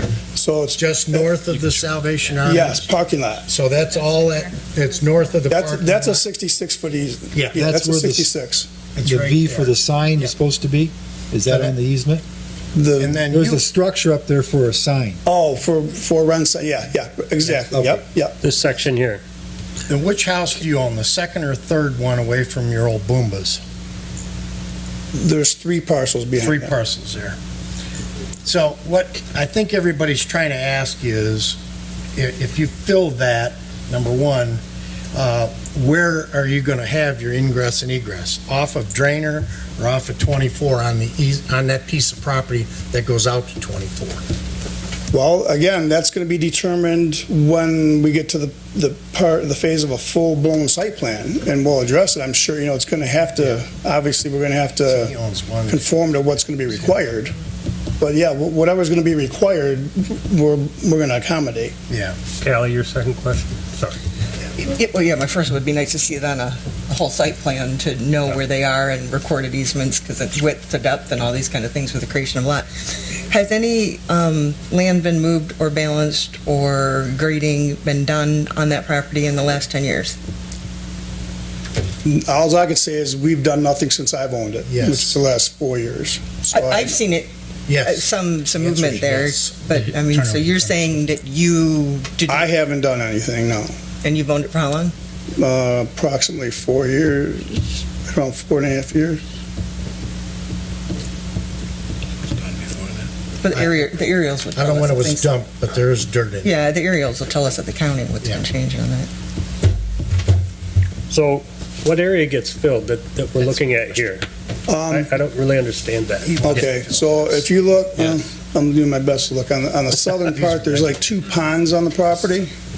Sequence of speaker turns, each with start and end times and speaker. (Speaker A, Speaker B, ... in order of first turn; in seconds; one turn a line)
Speaker A: 0.3-1.3
Speaker B: 0.7-2.9
Speaker A: 2.4-3.5
Speaker B: 3.5-6.2
Speaker A: 5.5-8.7
Speaker B: 7.3-7.7
Speaker C: 7.6-8.3
Speaker B: 8.9-10.3
Speaker C: 9.0-12.2
Speaker B: 11.4-11.7
Speaker A: 12.7-13.2
Speaker B: 13.0-13.7
Speaker C: 13.2-15.2
Speaker A: 15.2-18.4
Speaker C: 17.5-18.0
Speaker D: 18.4-19.2
Speaker B: 19.9-23.6
Speaker A: 25.1-26.7
Speaker B: 26.4-27.4
Speaker B: 28.4-31.6
Speaker B: 32.1-34.6
Speaker B: 35.1-44.2
Speaker A: 45.1-55.1
Speaker B: 54.9-55.9
Speaker A: 55.7-57.3
Speaker A: 58.0-61.7
Speaker B: 61.9-62.1
Speaker D: 62.4-64.0
Speaker E: 64.6-80.2
Speaker A: 82.0-87.0
Speaker B: 84.7-85.1
Speaker E: 86.5-87.3
Speaker B: 87.7-91.0
Speaker E: 87.8-92.5
Speaker A: 92.3-93.7
Speaker E: 94.0-94.9
Speaker A: 95.4-99.2
Speaker B: 102.5-102.9
Speaker E: 103.4-105.3
Speaker B: 103.5-103.9
Speaker B: 104.5-106.5
Speaker E: 106.4-109.1
Speaker D: 111.1-114.2
Speaker A: 114.7-115.1
Speaker D: 114.9-116.6
Speaker B: 116.2-117.5
Speaker A: 116.4-122.5
Speaker B: 120.2-121.2